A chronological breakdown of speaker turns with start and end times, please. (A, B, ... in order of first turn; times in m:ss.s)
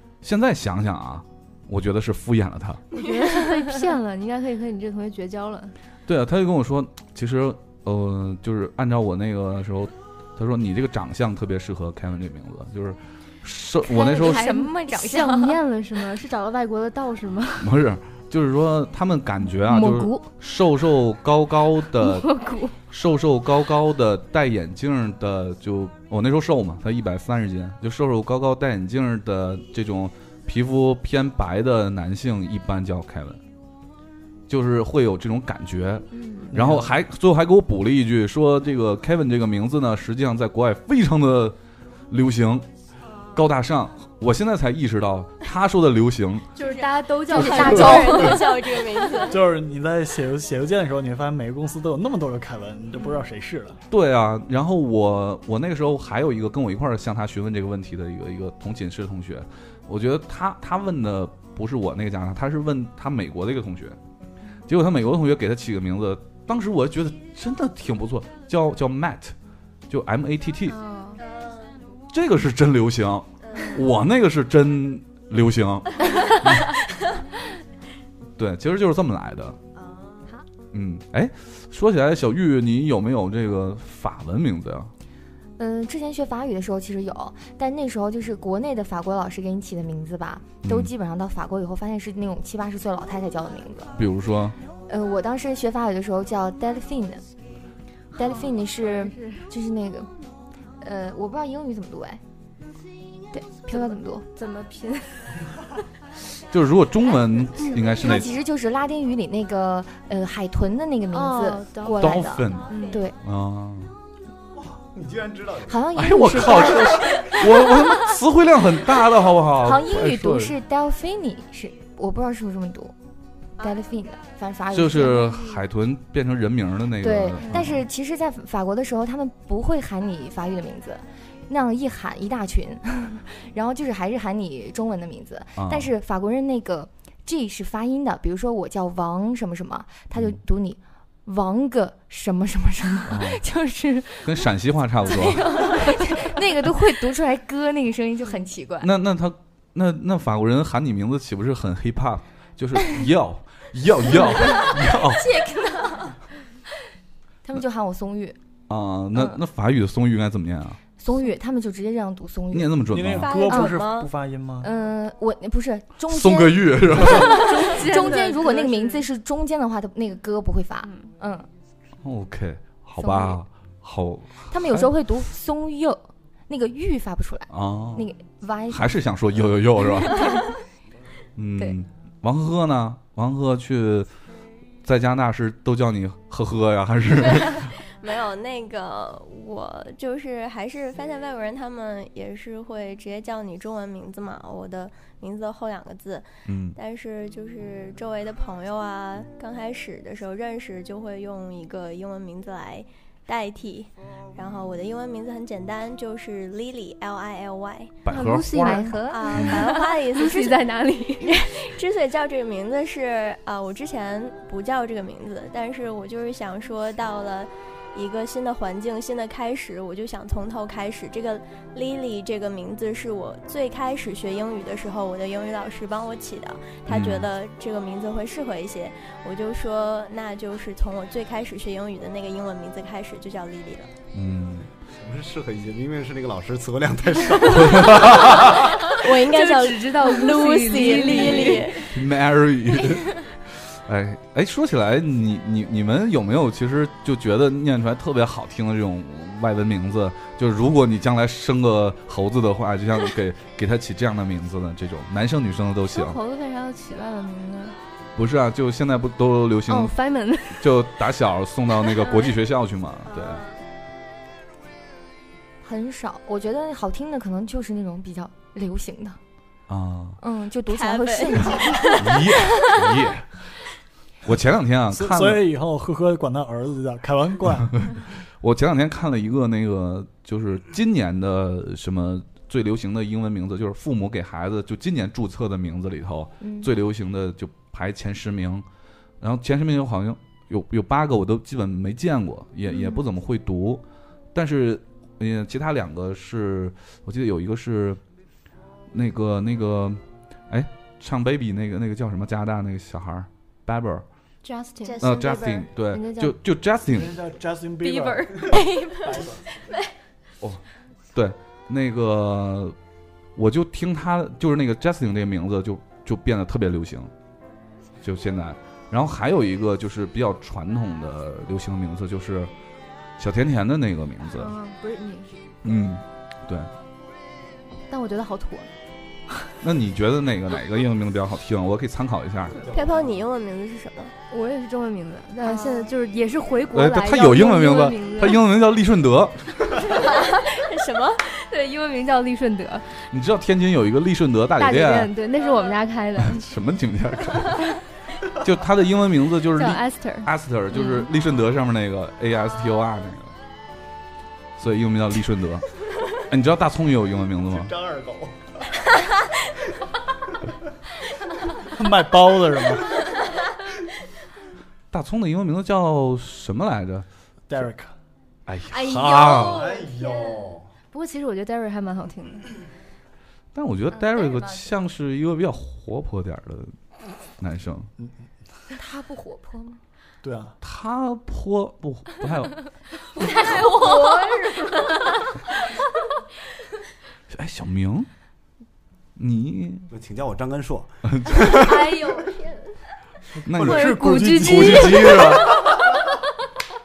0:00.2-0:02.8 A
0:02.9-0:05.8 B
0:06.1-0:14.5 A
0:13.8-0:15.6 C
0:14.1-0:17.7 B
0:17.6-0:22.3 A
0:19.6-0:20.3 B
0:22.0-0:22.7 B
0:22.9-0:33.4 A
0:34.5-0:41.6 A
0:36.5-0:36.9 D
0:42.1-0:42.7 A
0:43.4-0:46.5 A
0:46.6-0:48.6 B
0:46.6-0:49.4 E
0:47.3-0:48.4 C
0:49.3-0:53.8 D
0:53.9-1:04.0 A
1:04.7-1:09.4 A
1:09.9-1:10.8 A
1:10.7-1:11.2 B
1:11.2-1:11.8 E
1:12.1-1:16.7 A
1:13.4-1:13.8 E
1:18.4-1:19.6 A
1:19.8-1:20.3 E
1:20.7-1:24.9 A
1:25.6-1:33.9 C
1:30.6-1:30.9 A
1:34.0-1:34.6 A
1:34.9-1:37.2 C
1:38.1-1:40.1 C
1:38.2-1:39.5 B
1:40.8-1:42.2 C
1:43.3-1:44.2 C
1:43.7-1:45.3 B
1:46.5-1:48.3 A
1:47.6-1:53.2 C
1:51.1-1:53.0 B
1:52.0-1:52.7 A
1:53.2-1:53.9 A
1:54.6-1:55.8 F
1:55.7-1:57.4 C
1:55.9-2:00.6 A
1:59.6-2:02.9 C
2:03.6-2:03.8 E
2:03.6-2:05.4 C
2:04.7-2:07.8 A
2:07.0-2:24.5 C
2:15.6-2:15.9 A
2:23.1-2:23.4 A
2:24.2-2:25.5 A
2:25.0-2:28.9 C
2:25.5-2:26.0 B
2:28.8-2:35.3 A
2:34.4-2:36.2 C
2:37.5-2:38.4 C
2:38.7-2:40.8 A
2:41.0-2:42.8 C
2:42.5-2:43.3 A
2:42.9-2:44.7 D
2:43.2-2:44.1 E
2:43.5-2:43.8 C
2:44.6-2:51.5 C
2:46.1-2:47.4 A
2:47.1-2:49.0 B
2:50.8-2:51.1 B
2:52.0-2:54.9 A
2:53.0-2:53.4 C
2:54.5-2:59.0 C
2:57.5-2:58.1 A
2:58.7-3:00.4 A
2:59.8-3:00.4 C
3:01.4-3:04.1 A
3:04.8-3:07.7 A
3:07.6-3:28.0 E
3:16.5-3:16.8 A
3:28.0-3:29.6 A
3:28.1-3:31.6 B
3:28.5-3:29.3 C
3:29.1-3:30.7 E
3:31.2-3:53.9 E
3:46.9-3:47.3 A
3:54.1-3:54.7 A
3:54.9-3:58.6 F
3:57.5-3:58.6 A
3:58.3-4:01.9 E
3:59.0-4:01.8 B
4:01.9-4:16.2 A
4:15.9-4:17.8 B
4:18.2-4:20.0 A
4:19.7-4:20.8 B
4:20.5-4:23.4 A
4:23.0-4:23.6 E
4:25.6-4:29.2 C
4:29.7-4:30.2 A
4:30.2-4:32.2 C
4:30.7-4:32.3 E
4:32.0-4:33.3 A
4:34.2-4:35.4 A
4:34.9-4:37.8 D
4:37.8-4:48.7 A
4:46.4-4:46.7 C
4:49.2-4:53.8 A
4:52.7-4:53.0 C
4:54.3-4:58.0 A
4:58.9-5:04.0 A
5:04.4-5:06.4 B
5:04.8-5:05.6 E
5:05.0-5:07.2 A
5:06.9-5:09.4 D
5:07.8-5:09.0 B
5:11.2-5:12.8 A
5:13.4-5:17.1 A
5:18.0-5:22.5 A
5:23.2-5:24.5 A
5:24.4-5:25.4 B
5:25.6-5:26.7 A
5:27.9-5:28.7 B
5:29.6-5:32.6 A
5:32.5-5:33.3 F
5:32.7-5:34.1 E
5:34.3-5:38.4 B
5:36.7-5:39.7 A
5:39.8-5:41.2 E
5:40.0-5:40.3 B
5:41.2-5:43.0 B
5:43.1-5:45.1 A
5:44.6-5:46.4 B
5:45.4-5:45.8 E
5:46.2-5:47.7 A
5:48.4-5:53.4 A
5:49.6-5:50.3 B
5:54.6-5:55.7 A
5:56.2-5:57.7 A
5:57.5-5:58.8 F
6:01.7-6:03.0 D
6:04.9-6:07.1 A
6:07.5-6:07.9 D
6:08.5-6:09.7 A
6:08.8-6:09.9 B
6:09.2-6:10.7 F
6:10.0-6:10.4 E
6:10.9-6:12.5 B
6:13.6-6:16.8 A
6:13.9-6:14.7 C
6:17.4-6:17.9 A
6:18.7-6:19.8 C
6:20.2-6:20.6 D
6:20.6-6:22.7 A
6:23.2-6:24.9 C
6:23.3-6:24.8 E
6:27.3-6:28.1 A
6:29.2-6:29.9 A
6:29.9-6:32.1 F
6:31.0-6:31.4 A
6:31.5-6:32.7 E
6:33.4-6:35.3 D
6:33.5-6:35.6 A
6:33.6-6:35.2 B
6:35.5-6:35.9 F